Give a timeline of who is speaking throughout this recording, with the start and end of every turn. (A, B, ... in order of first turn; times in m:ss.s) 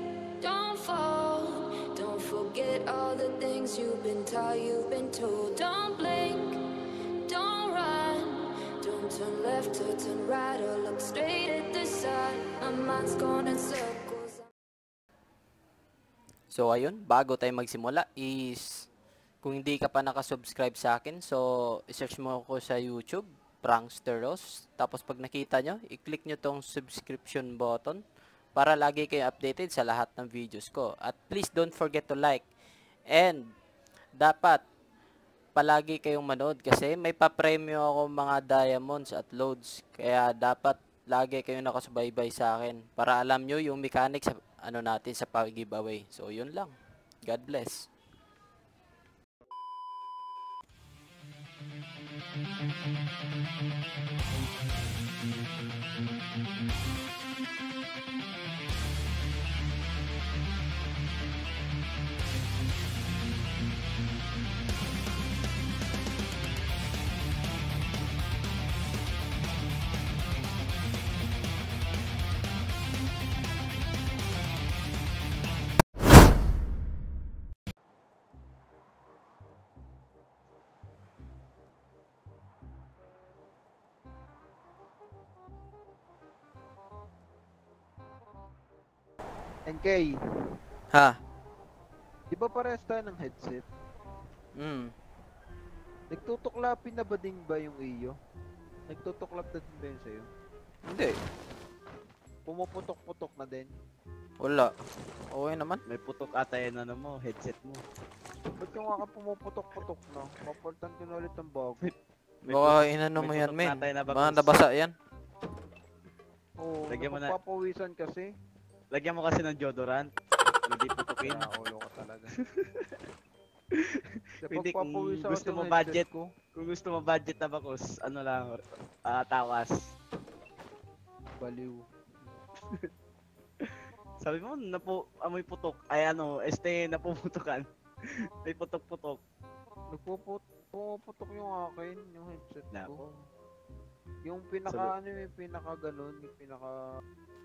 0:00.4-0:06.6 A
0:07.2-0:14.5 A
0:16.5-0:18.9 B
0:19.4-0:28.0 B
0:28.5-0:32.5 B
0:33.1-0:33.5 B
0:34.2-0:34.6 B
0:35.5-0:47.8 B
1:29.6-1:30.2 C
1:30.9-1:31.2 B
1:32.3-1:33.6 C
1:34.6-1:34.9 B
1:36.1-1:38.1 C
1:38.9-1:40.3 C
1:40.8-1:41.2 B
1:42.5-1:43.7 C
1:44.4-1:44.7 B
1:45.3-1:45.8 B
1:45.9-1:47.8 D
1:48.6-1:51.8 C
1:52.4-1:54.5 D
1:52.4-1:54.9 B
1:56.6-1:58.3 C
1:56.9-1:57.3 D
1:58.9-2:00.1 D
2:00.7-2:01.5 D
2:01.2-2:02.3 C
2:02.5-2:02.9 D
2:03.7-2:09.9 D
2:04.4-2:06.3 C
2:11.4-2:12.3 C
2:14.2-2:17.6 D
2:18.4-2:19.2 D
2:19.9-2:23.1 C
2:22.7-2:23.0 D
2:24.2-2:26.8 C